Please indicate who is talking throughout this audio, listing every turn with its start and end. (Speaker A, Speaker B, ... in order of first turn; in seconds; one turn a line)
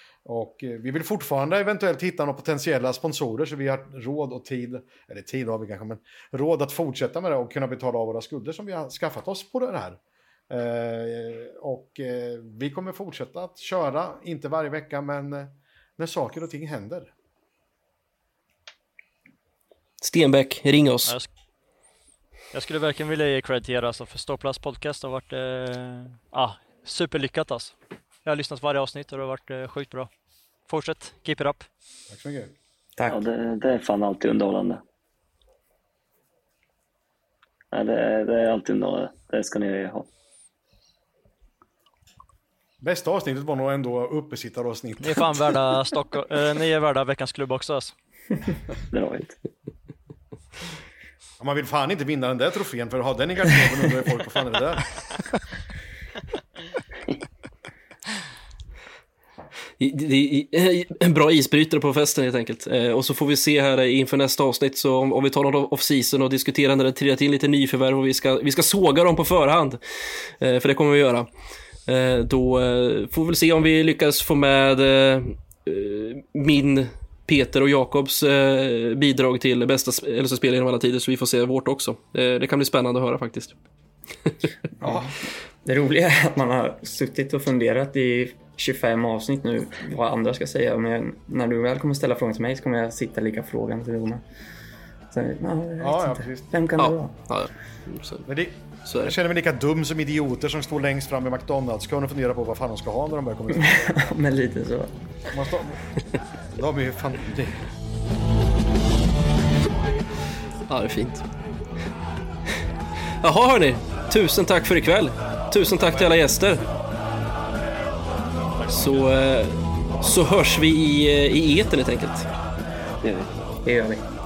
Speaker A: 0.2-17.1
Speaker B: 20.0-21.1
Speaker C: 22.5-30.1
Speaker C: 30.6-31.7
Speaker A: 32.1-32.5
Speaker D: 33.1-34.8
Speaker D: 37.7-40.1
Speaker A: 42.8-45.5
Speaker C: 45.0-47.9
Speaker D: 48.9-49.4
Speaker A: 51.4-55.1
Speaker B: 59.8-71.3
Speaker B: 71.9-83.5
Speaker E: 84.8-94.2
Speaker A: 84.8-85.1
Speaker E: 95.1-97.1
Speaker A: 95.8-96.5
Speaker B: 96.8-98.2
Speaker A: 98.3-103.8
Speaker B: 98.8-99.1
Speaker E: 103.5-105.0
Speaker A: 105.3-105.9
Speaker A: 106.5-107.7
Speaker B: 110.7-111.2
Speaker B: 113.2-116.6
Speaker B: 118.7-122.3
Speaker D: 123.0-123.4
Speaker E: 123.6-124.0